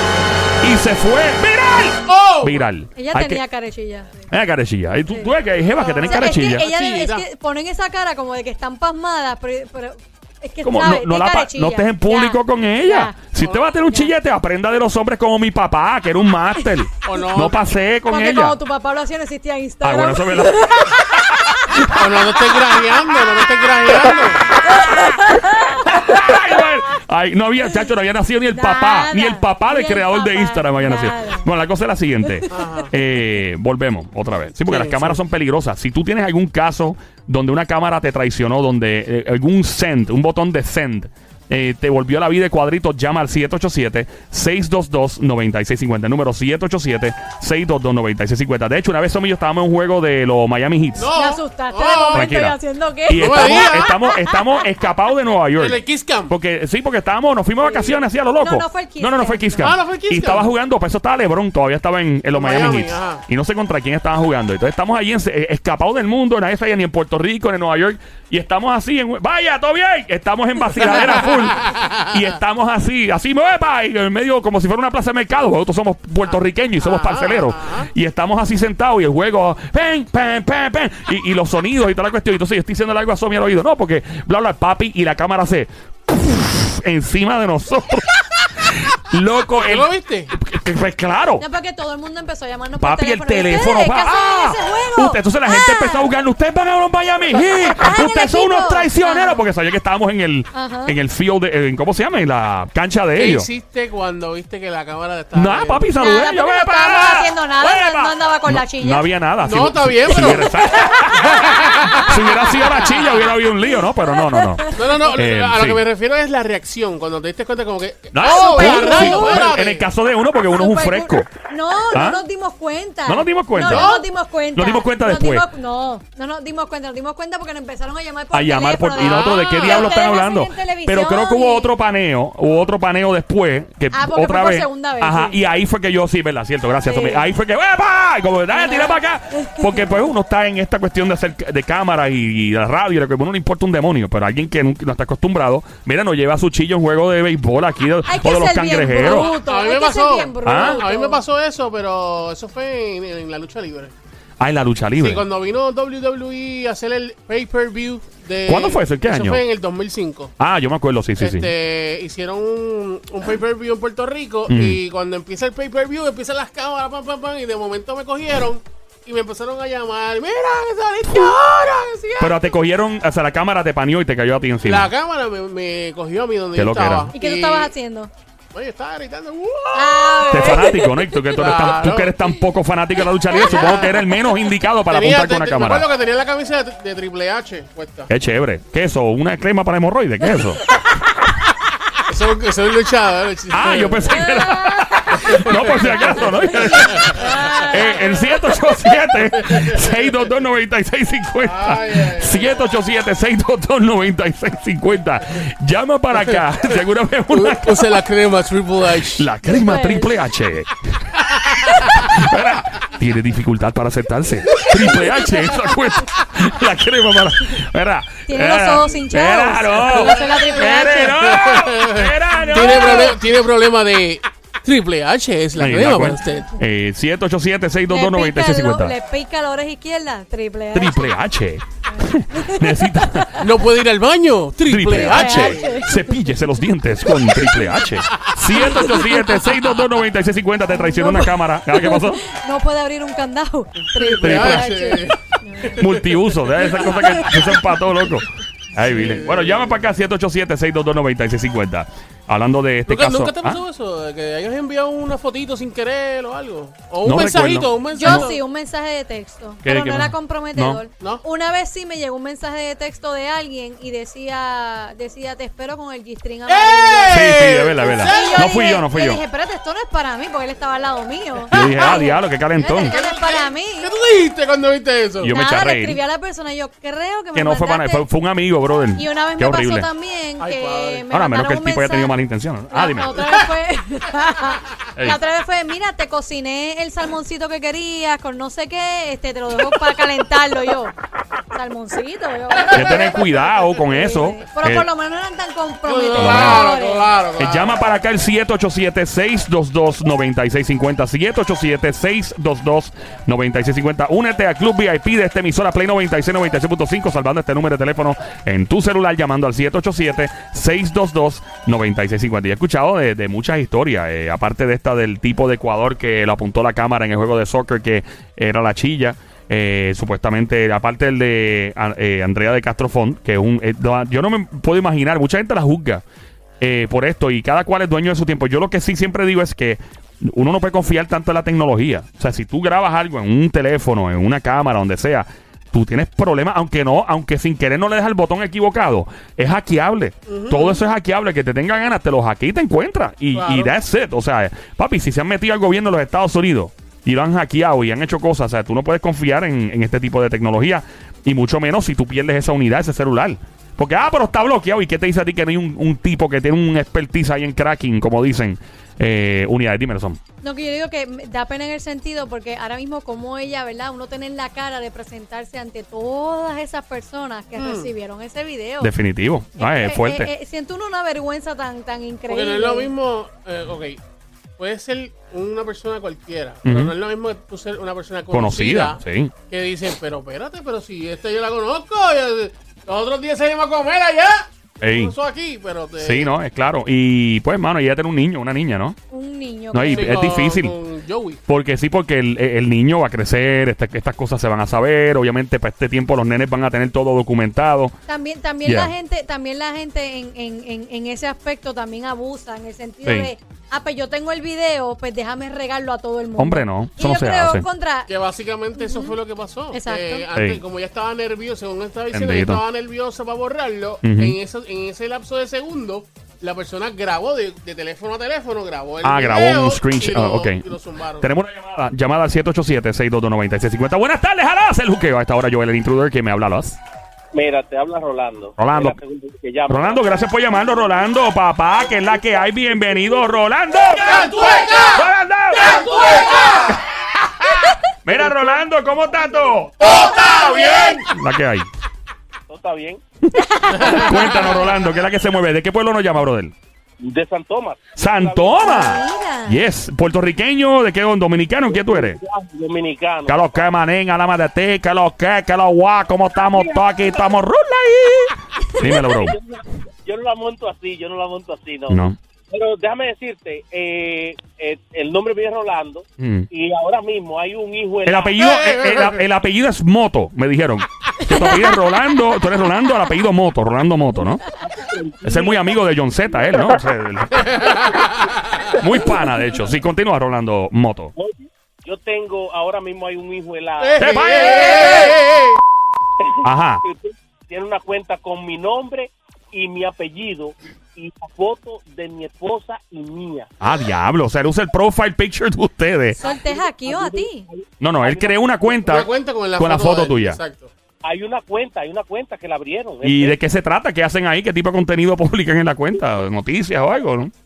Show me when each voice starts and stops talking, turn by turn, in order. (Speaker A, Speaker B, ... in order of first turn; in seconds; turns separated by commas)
Speaker A: 0.6-3.4, Speaker B: 2.1-2.7, Speaker C: 3.0-4.3, Speaker A: 4.3-6.7, Speaker C: 5.1-5.3, Speaker B: 5.8-7.3, Speaker C: 6.0-13.3, Speaker A: 10.6-18.6, Speaker C: 13.8-14.1, Speaker B: 17.0-17.6, Speaker C: 18.1-21.3, Speaker A: 19.8-20.6, Speaker A: 21.2-22.0, Speaker B: 21.9-24.4, Speaker C: 24.7-25.8, Speaker A: 25.7-51.1, Speaker C: 28.5-31.5, Speaker B: 32.5-32.9, Speaker B: 34.6-35.2, Speaker B: 51.0-52.3, Speaker C: 51.1-54.6, Speaker A: 52.1-91.5, Speaker B: 53.1-54.0, Speaker B: 55.6-56.4, Speaker C: 57.6-59.7, Speaker B: 59.6-60.5, Speaker B: 62.3-63.2, Speaker B: 71.6-71.9, Speaker B: 76.2-77.9, Speaker B: 89.5-90.3, Speaker C: 91.4-96.1, Speaker A: 92.8-103.5, Speaker C: 97.3-99.5, Speaker C: 100.5-101.0, Speaker B: 103.2-106.0, Speaker A: 105.3-115.8, Speaker C: 106.0-109.1, Speaker B: 109.4-110.6, Speaker C: 110.1-112.1, Speaker B: 111.1-112.6, Speaker C: 113.8-114.9, Speaker B: 114.7-119.9, Speaker A: 118.1-121.3, Speaker C: 118.2-119.5, Speaker C: 120.5-131.8, Speaker A: 121.9-122.2, Speaker A: 123.1-124.0, Speaker B: 123.7-124.1, Speaker A: 124.5-125.5, Speaker A: 128.3-149.3, Speaker B: 129.0-129.9, Speaker C: 133.9-135.4, Speaker C: 136.8-137.2, Speaker C: 138.5-139.9, Speaker C: 148.1-151.2, Speaker B: 149.3-153.9, Speaker A: 150.4-150.8, Speaker A: 154.4-155.3, Speaker B: 155.0-160.3, Speaker A: 158.4-159.4, Speaker A: 160.4-161.5, Speaker B: 161.2-172.5, Speaker A: 164.5-164.8, Speaker A: 172.2-174.9, Speaker B: 174.6-177.7, Speaker A: 176.6-177.1, Speaker C: 177.1-178.1, Speaker B: 178.5-180.5, Speaker C: 179.7-181.3, Speaker A: 180.3-185.9, Speaker B: 181.3-182.3, Speaker B: 183.3-184.1, Speaker B: 184.9-188.1, Speaker A: 188.1-190.6, Speaker B: 192.1-194.1, Speaker A: 193.5-208.0, Speaker C: 194.1-195.1, Speaker B: 195.1-197.4, Speaker C: 196.3-198.5, Speaker B: 199.3-199.9, Speaker B: 201.4-202.6, Speaker B: 207.3-209.3, Speaker A: 209.1-223.2, Speaker C: 209.4-210.2, Speaker C: 218.3-221.4, Speaker B: 219.8-226.5, Speaker C: 222.4-223.1, Speaker A: 225.6-229.0, Speaker C: 227.9-231.2, Speaker A: 230.7-233.4, Speaker C: 231.8-233.5, Speaker B: 233.4-235.9, Speaker A: 234.7-242.2, Speaker C: 234.9-236.2, Speaker B: 238.1-238.5, Speaker C: 238.5-239.3, Speaker C: 240.7-246.0, Speaker B: 243.9-245.2, Speaker A: 244.2-244.7, Speaker A: 245.6-253.6, Speaker B: 245.9-246.8, Speaker C: 246.6-247.9, Speaker B: 248.8-249.8, Speaker B: 252.9-258.4, Speaker A: 257.0-258.3, Speaker C: 257.9-267.3, Speaker A: 259.6-260.8, Speaker B: 266.5-268.5, Speaker A: 267.1-269.2, Speaker C: 268.0-273.9, Speaker A: 271.5-273.0, Speaker B: 271.6-272.0, Speaker B: 272.6-275.4, Speaker A: 275.2-276.0, Speaker C: 275.2-278.1, Speaker A: 277.4-279.9, Speaker C: 278.9-282.2, Speaker B: 280.4-281.1, Speaker A: 281.1-283.2, Speaker C: 282.7-291.0, Speaker C: 291.5-297.2, Speaker A: 292.7-294.9, Speaker B: 295.9-297.8, Speaker A: 296.1-296.7, Speaker A: 297.4-326.0, Speaker A: 326.6-360.2, Speaker B: 340.3-340.8, Speaker B: 343.4-343.8, Speaker C: 360.4-368.9, Speaker B: 367.6-367.9, Speaker A: 368.8-370.3, Speaker C: 369.6-372.9, Speaker B: 372.3-374.0, Speaker B: 374.6-386.4, Speaker A: 376.6-376.9, Speaker A: 378.3-379.3, Speaker A: 384.8-385.1, Speaker A: 386.0-389.0, Speaker C: 389.1-390.4, Speaker A: 389.7-390.8, Speaker B: 389.9-391.4, Speaker A: 391.5-397.9, Speaker C: 398.1-408.1, Speaker A: 398.6-398.9, Speaker A: 403.1-403.3, Speaker A: 406.4-407.7, Speaker B: 408.1-421.3, Speaker C: 408.8-409.2, Speaker C: 409.7-410.3, Speaker A: 410.3-410.6, Speaker A: 412.1-412.6, Speaker A: 414.0-414.4, Speaker A: 419.0-420.7, Speaker A: 421.2-426.8, Speaker D: 427.3-430.3, Speaker A: 428.6-429.0, Speaker A: 429.7-436.7, Speaker D: 431.8-433.2, Speaker D: 434.1-434.7, Speaker B: 434.3-435.0, Speaker D: 435.7-436.5, Speaker B: 435.7-436.7, Speaker A: 438.0-441.7, Speaker B: 439.8-441.0, Speaker D: 442.5-443.0, Speaker A: 443.3-446.5, Speaker C: 443.4-444.6, Speaker D: 447.0-448.7, Speaker A: 448.0-452.2, Speaker C: 448.6-449.6, Speaker D: 451.7-453.7, Speaker A: 453.3-459.4, Speaker D: 456.5-456.8, Speaker D: 458.8-468.5, Speaker A: 461.9-462.2, Speaker A: 466.2-466.5, Speaker A: 468.1-474.4, Speaker B: 468.4-469.2, Speaker D: 474.6-475.8, Speaker A: 475.2-477.9, Speaker B: 477.5-478.6, Speaker A: 478.7-481.1, Speaker D: 481.2-484.5, Speaker B: 483.8-485.6, Speaker A: 484.0-485.2, Speaker D: 486.2-493.5, Speaker A: 486.4-486.8, Speaker A: 493.6-496.2, Speaker C: 496.1-497.5, Speaker D: 496.2-498.9, Speaker A: 497.8-500.4, Speaker B: 498.9-500.7, Speaker D: 501.0-503.4, Speaker A: 503.0-507.3